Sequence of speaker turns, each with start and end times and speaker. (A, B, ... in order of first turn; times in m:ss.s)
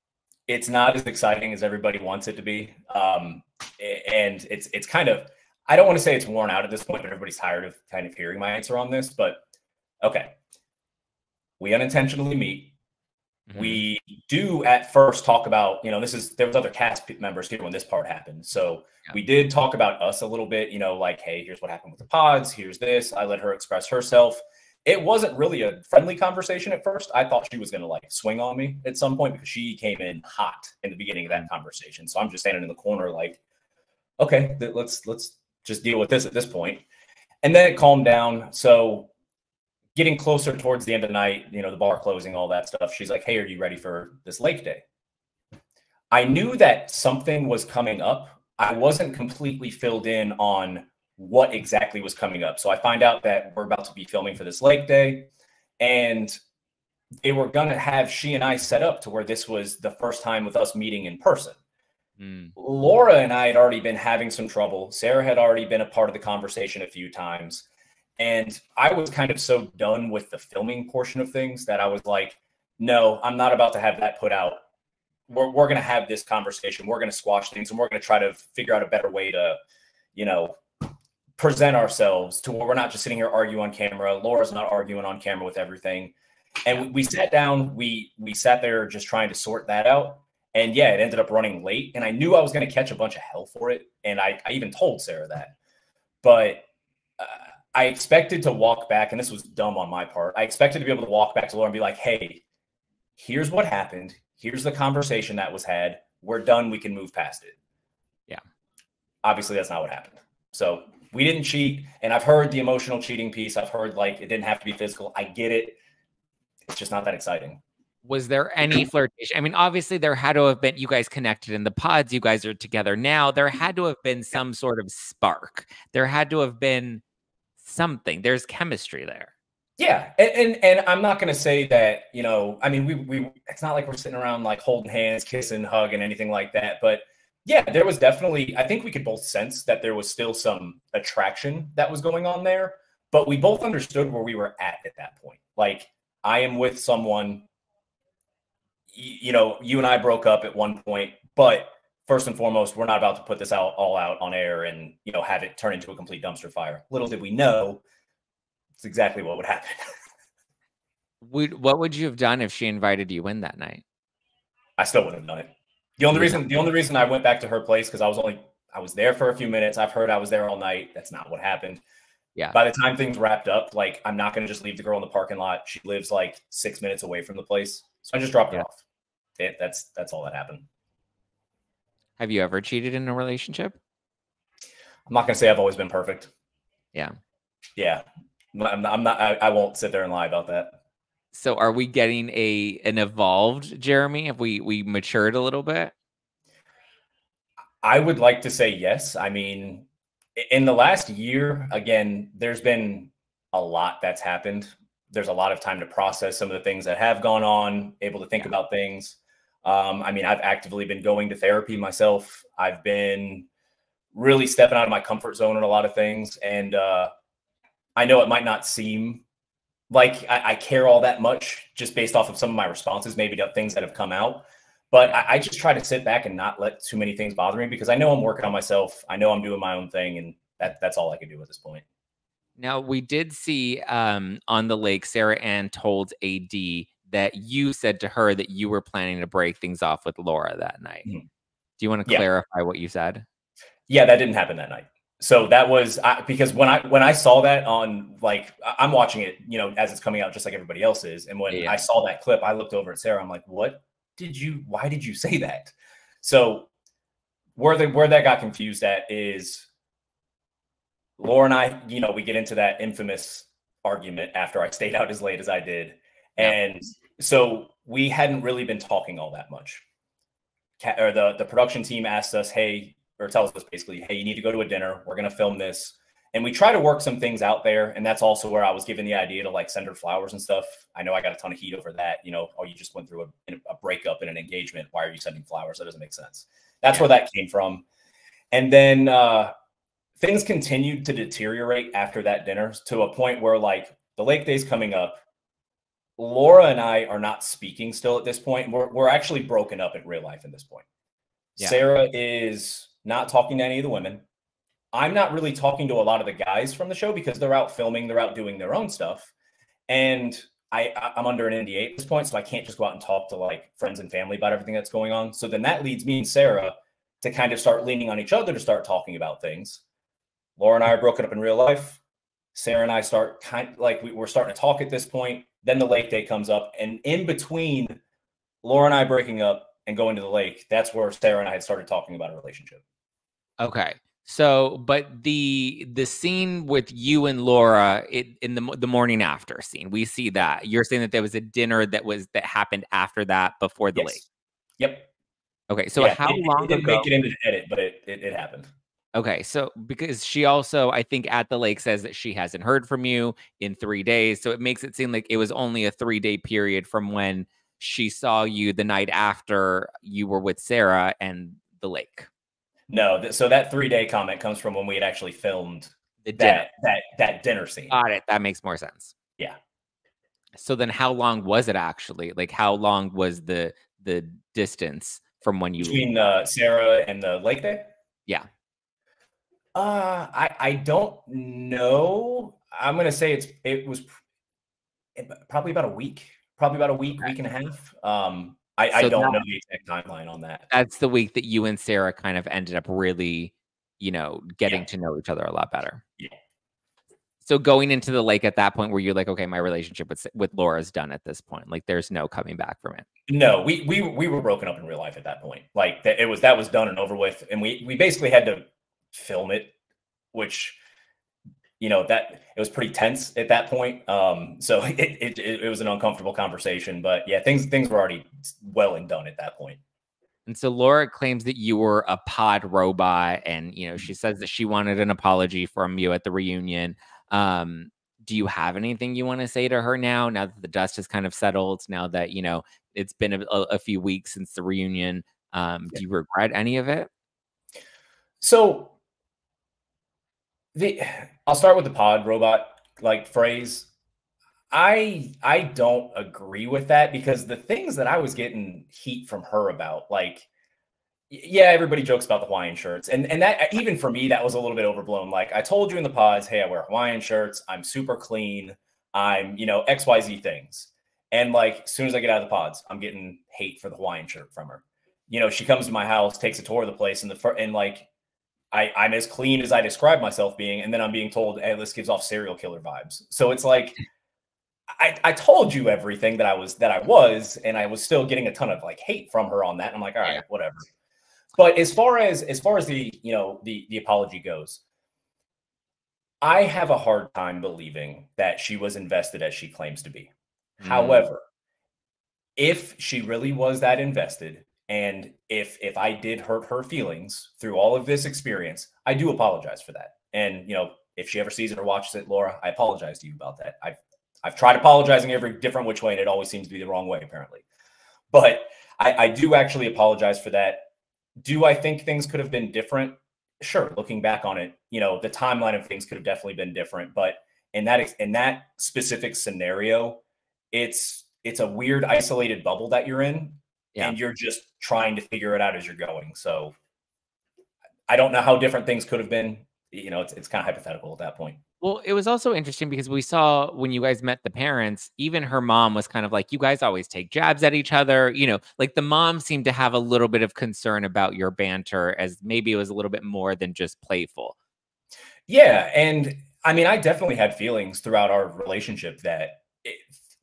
0:00.5-0:09.4 A
0:10.0-0:10.3 A
0:11.6-0:12.7 A
0:13.5-0:13.8 B
0:13.6-0:33.4 A
0:34.2-0:36.8 A
0:37.4-0:39.1 A
0:39.9-0:44.8 A
0:46.1-0:56.4 A
0:57.2-1:01.6 A
1:02.2-1:02.6 B
1:02.6-1:07.6 A
1:08.2-1:14.6 A
1:15.3-1:19.6 A
1:20.1-1:20.6 A
1:21.4-1:26.1 A
1:26.6-1:35.5 A
1:36.2-1:36.7 A
1:37.2-1:42.4 A
1:43.2-1:47.6 A
1:49.2-1:55.8 A
1:56.7-1:57.6 A
1:58.0-2:07.0 B
2:07.6-2:09.3 B
2:09.8-2:27.5 A
2:28.9-2:37.8 A
2:38.8-2:39.8 A
2:41.2-2:43.8 B
2:44.8-2:51.8 A
2:46.1-2:46.4 B
2:52.5-2:58.8 A
2:59.4-3:00.7 A
3:02.2-3:03.8 B
3:05.1-3:06.3 A
3:07.8-3:10.8 A
3:11.3-3:15.9 B
3:17.8-3:33.5 A
3:34.1-3:37.1 A
3:38.0-3:39.2 A
3:39.9-3:51.8 A
3:52.6-4:01.1 B
4:01.8-4:03.2 B
4:03.9-4:16.7 A
4:11.5-4:11.8 B
4:17.6-4:19.7 A
4:21.2-4:29.8 A
4:30.8-4:47.8 A
4:48.5-4:49.5 A
4:50.2-4:55.2 A
4:56.2-5:00.8 A
5:01.6-5:04.2 A
5:04.9-5:09.3 A
5:09.9-5:19.8 A
5:20.6-5:22.0 A
5:22.5-5:28.0 A
5:28.6-5:32.8 A
5:33.6-5:44.2 B
5:43.9-5:44.2 A
5:44.8-5:45.1 A
5:45.7-5:47.1 B
5:46.0-5:48.7 A
5:49.1-6:02.3 B
6:02.9-6:07.9 A
6:06.2-6:06.6 B
6:07.9-6:09.1 B
6:10.6-6:16.2 B
6:15.8-6:17.9 A
6:19.7-6:24.1 A
6:25.1-6:30.7 A
6:28.9-6:29.4 B
6:30.7-6:36.0 B
6:37.4-6:43.0 B
6:43.3-6:49.7 A
6:50.3-6:50.8 A
6:51.8-6:59.8 A
7:00.4-7:17.1 B
7:18.4-7:18.9 A
7:20.7-7:23.9 A
7:24.7-7:30.4 A
7:31.3-7:48.1 A
7:48.7-7:54.0 A
7:54.9-8:00.9 A
8:01.6-8:04.8 A
8:06.4-8:11.4 A
8:10.8-8:11.2 B
8:12.6-8:27.6 A
8:28.3-8:30.9 A
8:31.4-8:40.2 A
8:40.7-8:46.7 A
8:48.1-8:51.6 A
8:51.8-9:04.5 B
9:05.5-9:10.1 A